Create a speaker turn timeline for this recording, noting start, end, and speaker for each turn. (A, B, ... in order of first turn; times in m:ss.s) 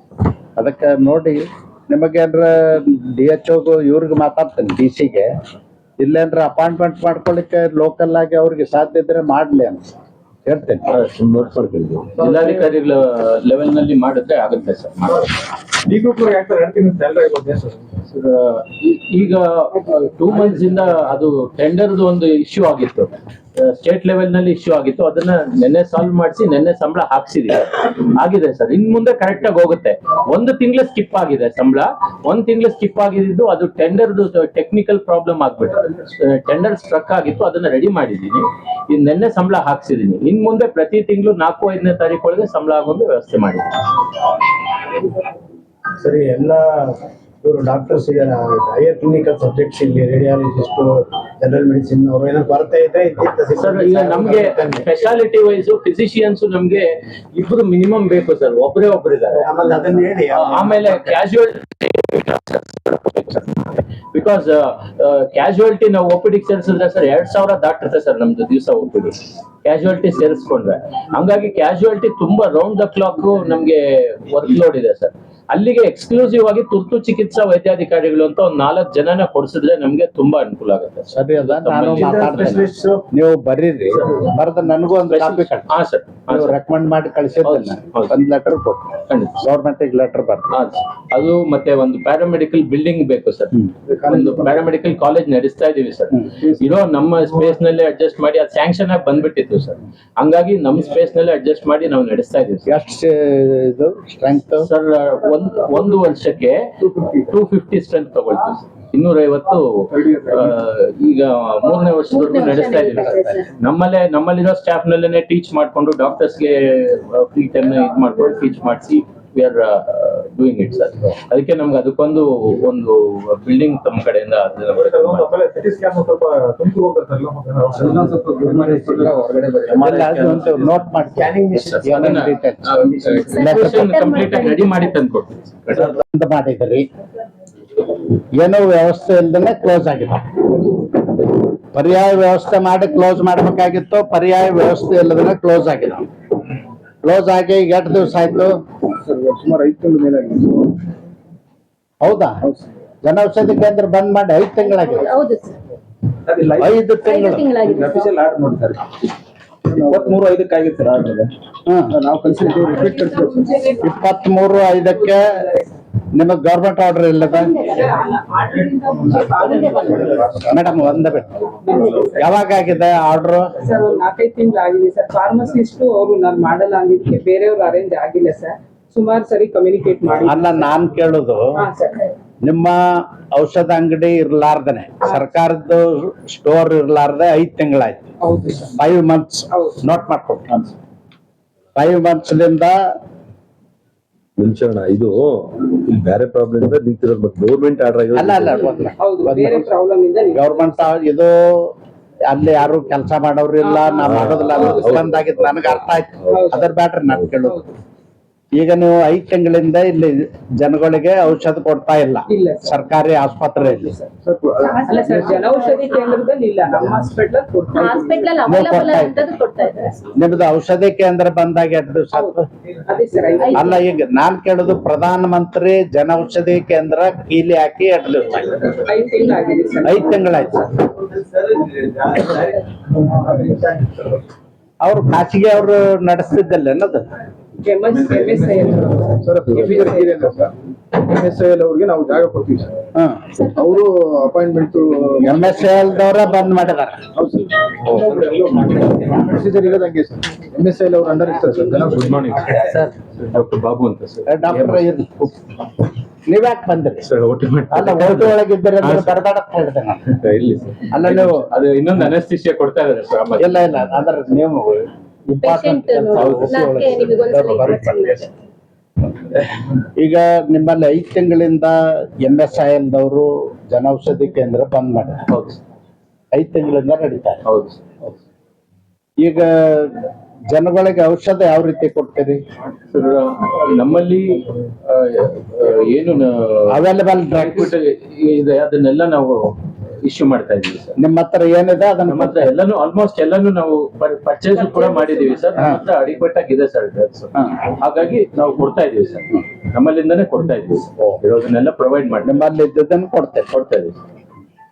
0:00.6-0:05.3 A
0:06.0-0:09.8 A
0:10.5-0:10.9 A
0:10.9-0:11.5 B
0:11.2-0:12.2 C
0:12.1-0:15.3 B
0:15.9-0:17.8 C
0:18.1-0:43.7 B
0:46.0-0:54.9 D
0:53.6-0:59.7 B
0:59.4-1:01.0 D
1:00.3-1:22.6 B
1:21.1-1:25.7 A
1:22.0-1:23.0 D
1:23.9-1:24.3 B
1:25.1-1:26.6 B
1:26.3-1:28.9 A
1:27.4-1:28.2 B
1:29.1-1:29.4 B
1:29.4-1:30.5 A
1:30.5-1:42.7 B
1:33.9-1:34.6 E
1:42.7-1:44.7 A
1:44.6-1:46.7 B
1:46.9-1:47.2 E
1:47.2-2:05.3 B
1:49.9-1:50.5 E
1:52.1-1:53.5 F
1:52.9-1:53.4 A
2:04.7-2:09.1 C
2:07.8-2:09.9 E
2:09.8-2:11.3 A
2:09.9-2:10.3 C
2:11.1-2:12.3 D
2:11.6-2:16.0 B
2:11.8-2:13.9 A
2:13.3-2:14.9 F
2:16.0-2:16.9 A
2:18.4-2:20.9 A
2:21.7-2:26.1 A
2:27.0-2:28.5 A
2:29.0-2:30.7 E
2:32.0-2:32.4 A
2:33.0-2:35.2 A
2:34.6-2:35.6 F
2:36.6-2:37.5 A
2:37.0-2:38.1 F
2:37.6-2:38.8 E
2:39.7-2:41.3 E
2:41.7-2:42.0 A
2:41.9-2:43.3 E
2:42.3-2:43.8 G
2:42.7-2:43.9 F
2:43.8-2:45.3 A
2:44.7-2:45.7 G
2:46.2-2:47.6 A
2:47.3-2:48.1 F
2:47.5-2:50.2 G
2:49.1-2:50.0 F
2:50.2-2:50.4 E
2:50.2-2:51.3 A
2:51.6-2:52.2 G
2:52.0-2:53.5 A
2:53.6-3:00.7 G
3:00.2-3:01.5 A
3:01.6-3:02.1 G
3:02.4-3:08.1 A
3:08.2-3:08.8 G
3:08.8-3:10.5 A
3:09.5-3:09.8 G
3:11.8-3:12.8 A
3:14.4-3:18.7 C
3:18.1-3:19.7 A
3:18.7-3:20.7 G
3:20.3-3:21.7 A
3:22.3-3:27.6 A
3:23.6-3:25.1 G
3:24.1-3:25.2 C
3:26.3-3:26.7 G
3:27.4-3:27.8 G
3:28.6-3:34.0 A
3:32.3-3:32.8 G
3:33.6-3:34.1 G
3:34.2-3:35.3 E
3:34.7-3:36.2 F
3:34.8-3:38.4 G
3:37.8-3:40.0 F
3:38.5-3:39.2 A
3:40.2-3:42.4 A
3:42.1-3:43.8 G
3:43.4-3:43.8 F
3:43.5-3:48.8 A
3:48.8-3:50.5 G
3:49.8-3:50.7 A
3:54.8-3:57.0 A
3:57.6-4:00.2 G
3:59.1-4:02.7 E
4:03.0-4:03.3 A
4:03.4-4:03.7 F
4:03.5-4:05.4 E
4:05.2-4:07.0 A
4:07.2-4:12.6 E
4:11.7-4:14.9 B
4:14.3-4:15.4 A
4:16.3-4:17.1 A
4:17.0-4:19.2 B
4:17.7-4:20.1 A
4:20.2-4:23.8 B
4:20.9-4:21.4 A
4:23.4-4:28.2 A
4:25.4-4:28.3 F
4:26.2-4:26.5 B
4:30.0-4:35.2 A
4:35.3-4:35.6 B
4:36.3-4:37.4 A
4:37.4-4:37.8 B
4:39.2-4:42.4 A
4:42.9-4:49.5 B
4:46.7-4:47.8 A
4:50.0-4:51.0 B
4:51.0-4:52.5 A
4:52.1-5:02.4 B
4:54.7-4:55.4 F
5:02.2-5:03.5 A
5:03.5-5:04.0 B